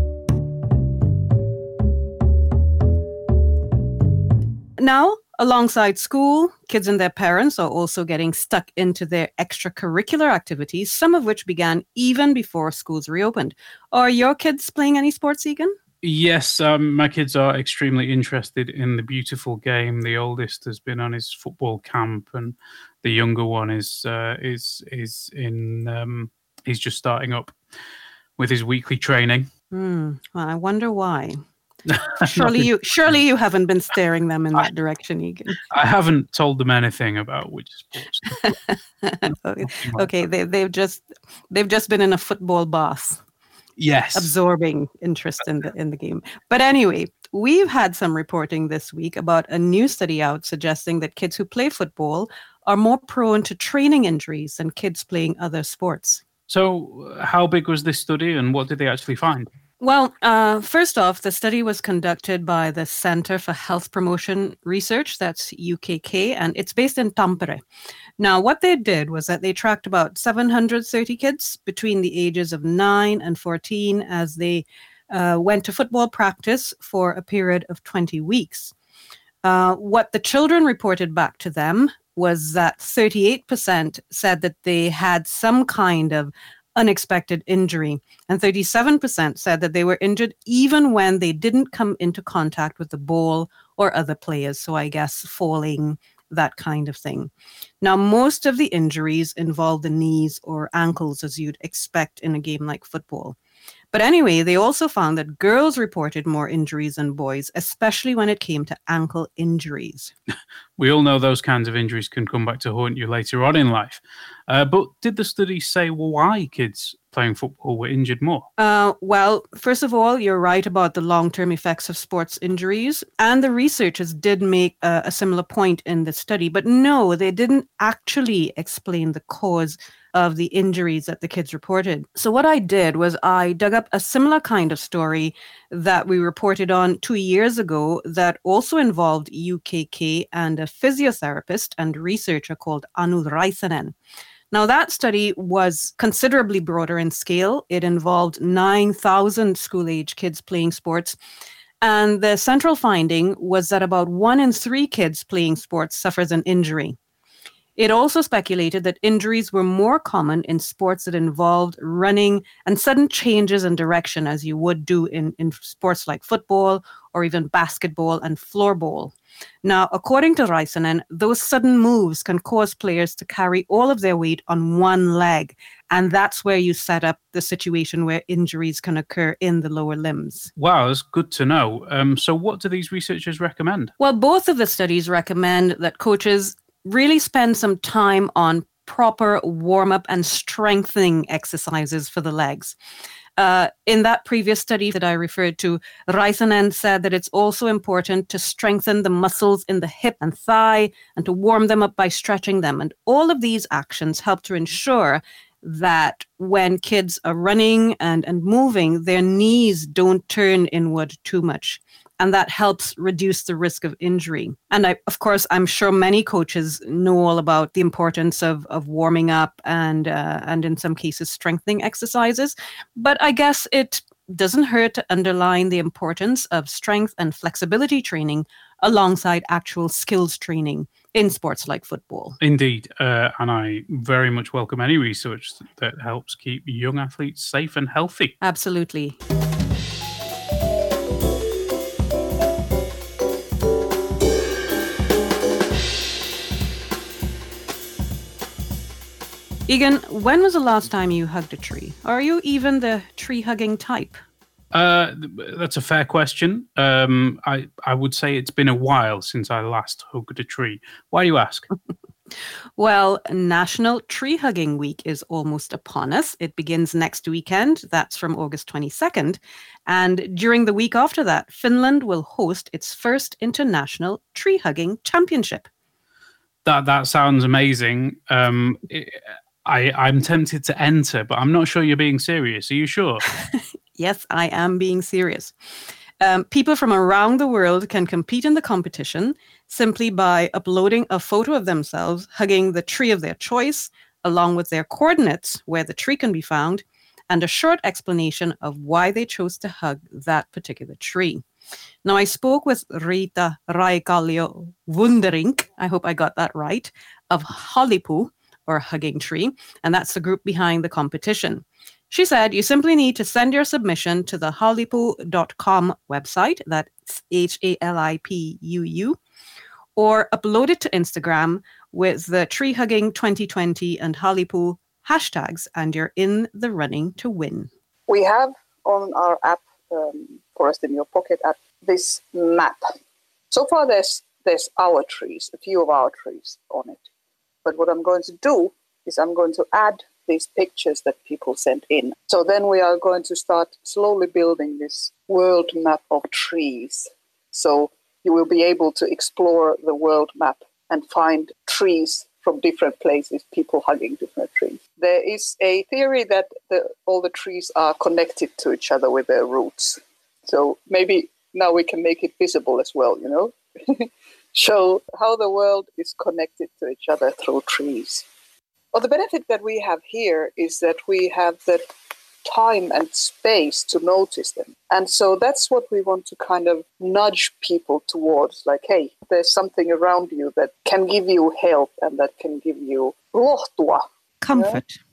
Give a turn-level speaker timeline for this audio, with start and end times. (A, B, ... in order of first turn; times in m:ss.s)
0:04.8-0:15.7 A
0:16.0-0:27.5 B
0:28.4-0:29.5 B
0:29.7-0:31.4 A
0:32.2-0:32.6 B
0:32.2-0:35.6 A
0:35.7-0:38.5 B
0:38.4-0:43.2 A
0:39.6-0:40.0 B
0:43.8-0:44.3 B
0:44.1-0:56.2 A
0:56.5-0:59.5 B
0:59.8-1:07.6 A
1:08.2-1:18.7 A
1:19.4-1:43.4 A
1:43.9-1:50.1 A
1:50.8-1:58.5 B
1:58.6-2:23.9 A
2:24.5-2:31.2 A
2:31.8-2:37.0 A
2:37.8-3:00.5 A
3:00.6-3:03.9 B
3:04.0-3:12.8 A
3:13.4-3:52.4 A
3:52.4-3:58.4 B
3:58.4-3:59.2 A
4:09.7-4:14.2 A
4:14.7-4:21.7 B
4:22.8-4:35.7 A
4:36.6-4:43.2 B
4:44.0-4:45.5 A
4:46.2-5:01.4 A
5:02.0-5:19.2 A
5:20.0-5:27.7 A
5:28.1-5:32.8 C
5:33.5-5:37.0 C
5:37.6-6:08.2 C
6:08.9-6:11.8 C
6:12.4-6:24.0 C
6:24.4-6:25.0 A